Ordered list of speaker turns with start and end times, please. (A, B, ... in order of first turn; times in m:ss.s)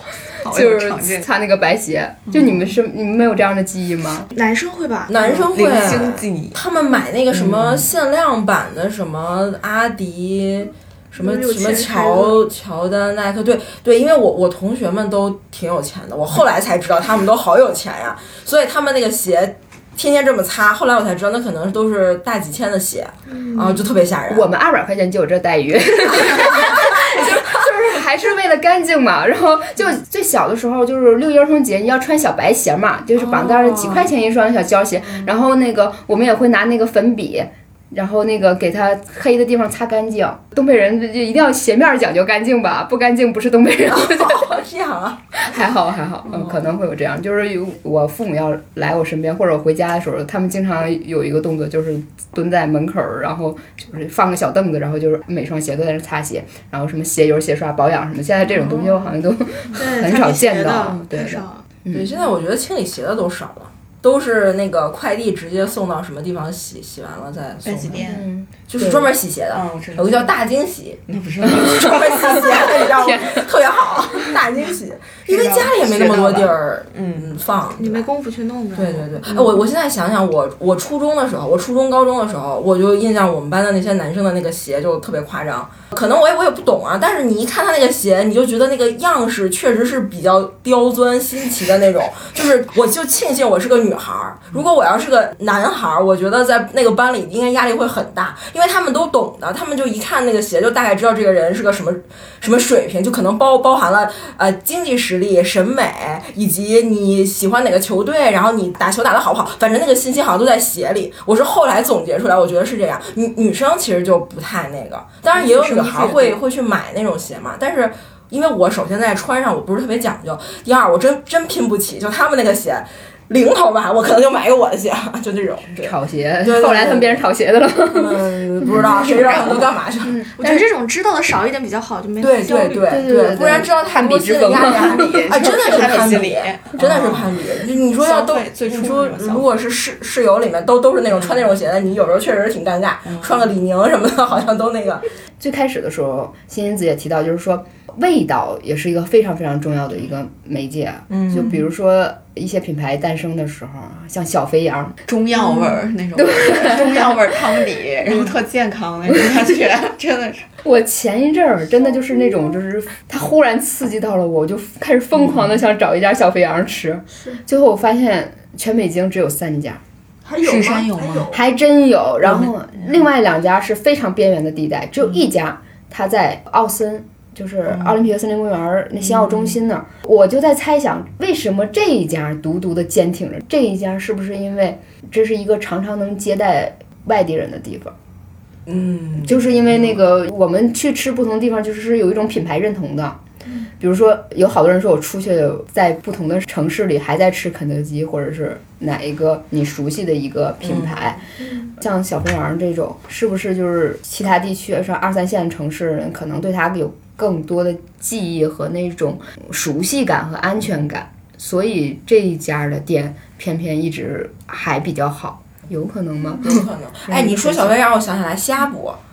0:00.4-0:01.3 A
0:00.4-0:04.3 B
0:02.3-0:02.6 A
0:04.3-0:05.4 C
0:05.1-0:24.5 D
0:05.5-0:06.6 A
0:11.2-0:12.4 C
0:23.3-0:23.8 E
0:24.3-0:44.6 B
0:26.2-0:27.3 D
0:33.2-0:34.1 D
0:43.9-0:45.2 D
0:45.4-1:02.1 B
0:59.7-1:01.6 C
1:01.9-1:08.1 D
1:07.6-1:08.2 A
1:08.0-1:09.0 B
1:08.7-1:18.1 D
1:09.5-1:10.3 A
1:11.1-1:12.4 A
1:11.6-1:13.5 B
1:15.3-1:17.4 A
1:17.8-1:19.1 C
1:18.7-2:07.2 D
1:55.5-1:56.0 C
2:05.8-2:09.4 B
2:07.9-2:10.2 D
2:08.9-2:09.6 A
2:10.0-2:10.6 B
2:10.4-2:13.0 C
2:12.2-2:25.0 D
2:12.9-2:15.8 B
2:14.5-2:17.4 A
2:17.9-2:19.5 A
2:21.2-2:21.5 A
2:23.1-2:23.4 A
2:25.4-2:35.0 B
2:31.1-2:31.6 D
2:35.0-2:40.5 A
2:36.2-2:37.3 B
2:40.6-2:49.8 B
2:50.2-2:51.4 E
2:50.4-2:51.4 A
2:51.3-3:07.9 B
2:52.2-2:52.5 A
3:08.7-3:10.0 D
3:09.2-3:13.2 B
3:13.8-3:21.2 B
3:20.6-3:20.9 D
3:21.4-3:21.7 E
3:21.8-3:37.8 B
3:36.4-3:39.0 D